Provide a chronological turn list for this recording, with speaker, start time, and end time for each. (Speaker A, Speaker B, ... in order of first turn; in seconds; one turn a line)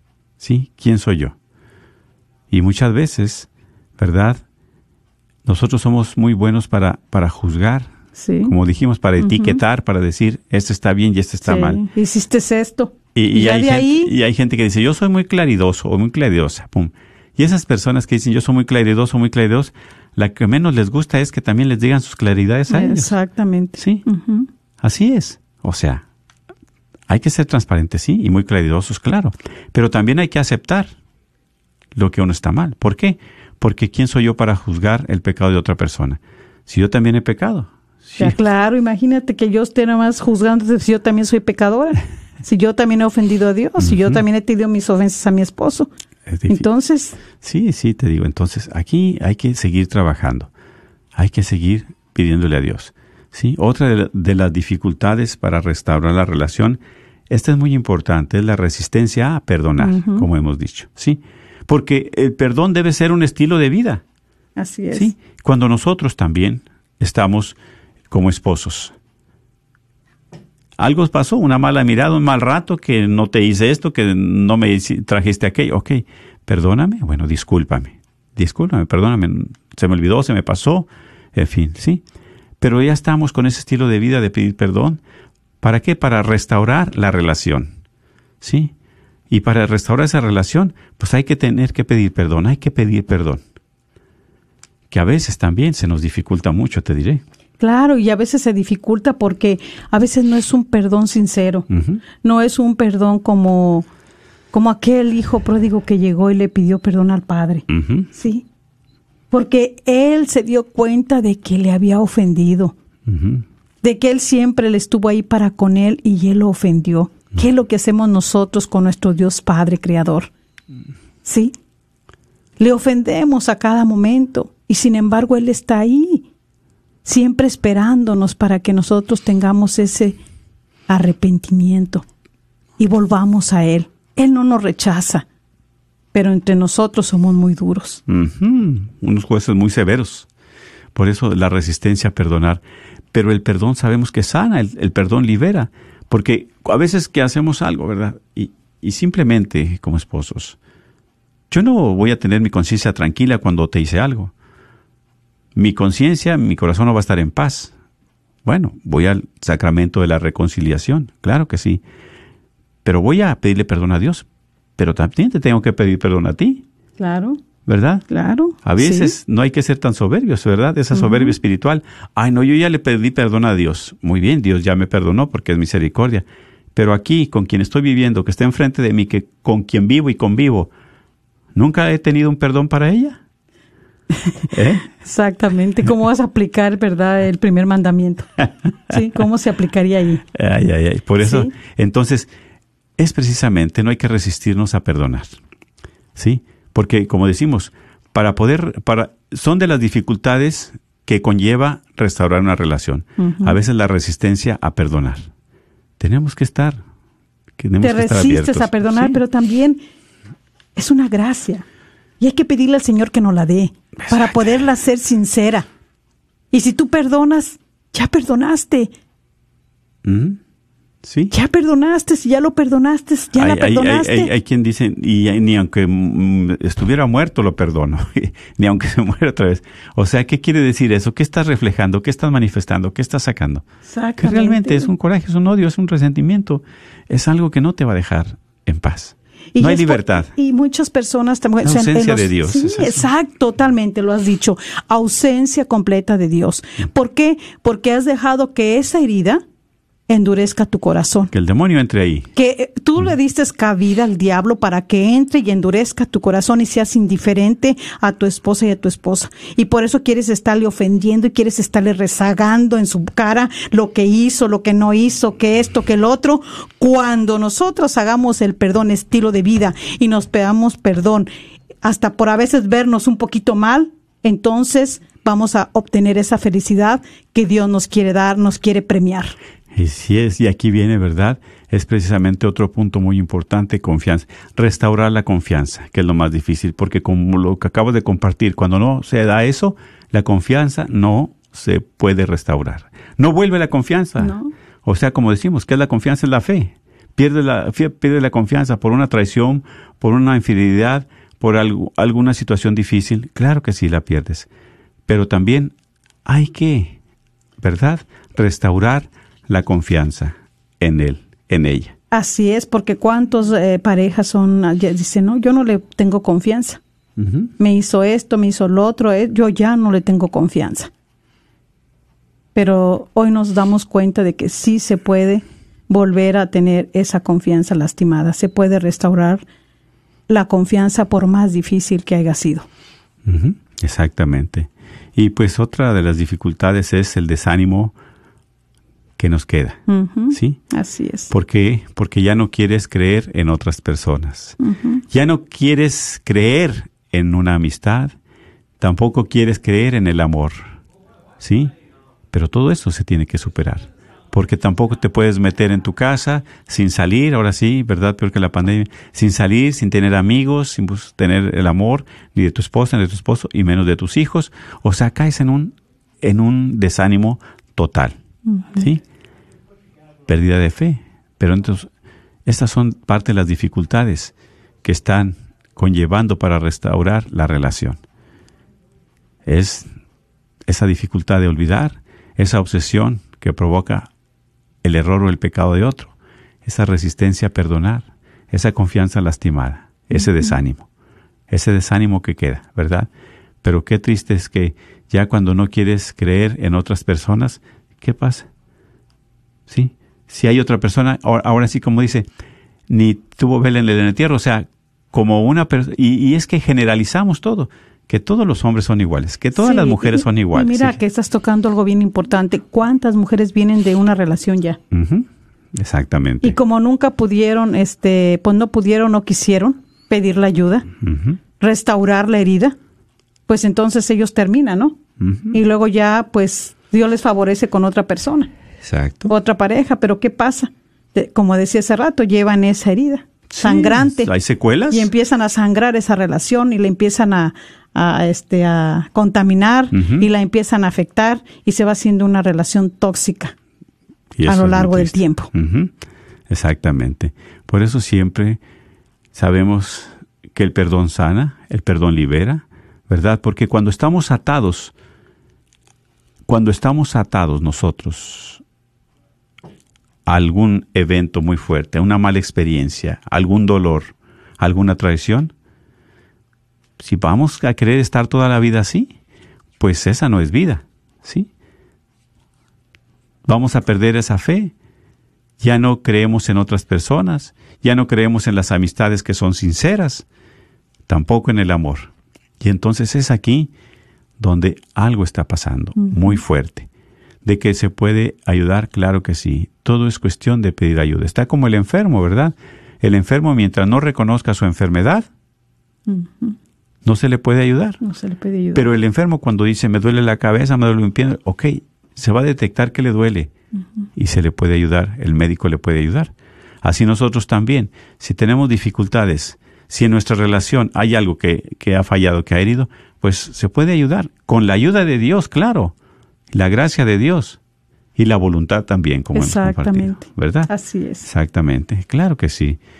Speaker A: 0.4-1.4
Speaker A: 2.5-4.4
Speaker A: 5.5-7.9
Speaker B: 8.2-8.5
Speaker A: 8.4-11.8
Speaker B: 9.2-9.6
Speaker B: 11.4-14.1
Speaker A: 13.2-23.1
Speaker B: 22.7-24.5
Speaker A: 23.8-24.0
Speaker A: 24.8-26.0
Speaker A: 27.1-30.9
Speaker A: 31.9-38.4
Speaker B: 38.2-45.9
Speaker A: 43.8-44.2
Speaker A: 46.3-46.7
Speaker B: 46.5-47.2
Speaker A: 47.3-50.5
Speaker A: 51.1-64.0
Speaker B: 59.8-60.3
Speaker B: 64.6-65.1
Speaker A: 64.9-67.6
Speaker A: 68.1-69.0
Speaker A: 70.8-82.0
Speaker A: 82.6-85.0
Speaker A: 85.6-87.7
Speaker A: 88.4-88.7
Speaker A: 89.3-93.4
Speaker A: 94.9-97.2
Speaker B: 97.6-101.7
Speaker A: 101.7-102.0
Speaker B: 102.2-103.9
Speaker B: 104.5-108.5
Speaker A: 107.7-108.1
Speaker B: 109.3-112.7
Speaker A: 113.1-113.5
Speaker B: 113.8-120.3
Speaker B: 121.2-121.5
Speaker B: 122.6-126.2
Speaker B: 127.0-130.2
Speaker B: 130.9-132.0
Speaker B: 132.8-135.3
Speaker B: 136.1-138.0
Speaker A: 138.1-140.3
Speaker A: 140.9-150.6
Speaker A: 151.5-154.3
Speaker A: 155.6-157.7
Speaker A: 158.4-161.8
Speaker A: 162.8-164.3
Speaker A: 164.8-166.6
Speaker B: 167.0-167.4
Speaker A: 167.7-168.1
Speaker B: 168.1-169.1
Speaker A: 168.6-180.7
Speaker B: 170.9-171.3
Speaker A: 181.6-183.2
Speaker B: 184.3-188.3
Speaker A: 184.5-184.9
Speaker B: 188.9-190.2
Speaker A: 190.3-192.3
Speaker B: 191.2-191.5
Speaker A: 193.0-195.4
Speaker A: 196.2-205.3
Speaker B: 203.2-203.6
Speaker A: 206.0-206.8
Speaker A: 207.6-209.2
Speaker B: 207.8-209.8
Speaker B: 210.8-211.7
Speaker B: 212.2-215.7
Speaker A: 214.0-214.6
Speaker B: 216.5-218.9
Speaker A: 220.0-220.4
Speaker A: 221.0-221.3
Speaker B: 221.3-224.3
Speaker A: 223.4-233.7
Speaker B: 233.9-234.9
Speaker A: 234.2-240.3
Speaker B: 239.6-249.4
Speaker A: 241.6-243.1
Speaker B: 250.1-251.3
Speaker A: 251.3-252.3
Speaker B: 252.4-271.3
Speaker B: 271.8-279.4
Speaker A: 279.7-304.5
Speaker B: 294.2-294.5
Speaker A: 305.1-305.7
Speaker A: 306.2-307.0
Speaker A: 307.6-311.9
Speaker B: 312.1-316.8
Speaker A: 317.2-317.5
Speaker B: 317.6-320.9
Speaker B: 322.6-329.4
Speaker B: 330.3-332.7
Speaker A: 333.2-337.9
Speaker A: 339.2-340.6
Speaker B: 339.9-341.3
Speaker A: 341.3-344.6
Speaker B: 344.6-345.0
Speaker A: 345.1-348.1
Speaker A: 348.8-350.8
Speaker A: 351.4-351.7
Speaker A: 352.3-368.2
Speaker B: 368.5-368.8
Speaker A: 368.7-369.0
Speaker A: 370.3-371.9
Speaker A: 372.5-378.0
Speaker A: 379.4-379.9
Speaker A: 380.7-384.1
Speaker A: 384.8-386.1
Speaker A: 386.6-390.9
Speaker A: 391.5-393.1
Speaker A: 393.6-398.5
Speaker A: 399.7-402.3
Speaker A: 402.9-411.0
Speaker B: 409.6-414.8
Speaker A: 414.9-416.6
Speaker B: 416.4-420.9
Speaker A: 421.0-421.4
Speaker B: 421.6-422.8
Speaker B: 423.5-425.0
Speaker A: 425.2-425.6
Speaker B: 425.5-428.5
Speaker A: 428.8-429.3
Speaker B: 429.3-434.3
Speaker A: 433.5-435.1
Speaker B: 434.9-443.6
Speaker A: 439.9-440.3
Speaker A: 444.3-445.9
Speaker B: 444.4-445.5
Speaker A: 446.5-448.6
Speaker A: 449.3-454.9
Speaker A: 456.5-458.6
Speaker A: 460.3-465.5
Speaker A: 467.0-469.1
Speaker A: 469.8-471.5
Speaker A: 473.5-474.7
Speaker A: 475.6-480.3
Speaker A: 481.1-483.7
Speaker A: 484.4-486.9
Speaker B: 486.0-486.4
Speaker A: 487.4-495.3
Speaker B: 496.1-496.6
Speaker A: 497.0-498.0
Speaker B: 498.0-498.9
Speaker A: 498.7-503.5
Speaker A: 504.1-516.0
Speaker A: 516.5-517.6
Speaker A: 518.2-520.7
Speaker B: 519.3-521.3
Speaker A: 521.2-522.8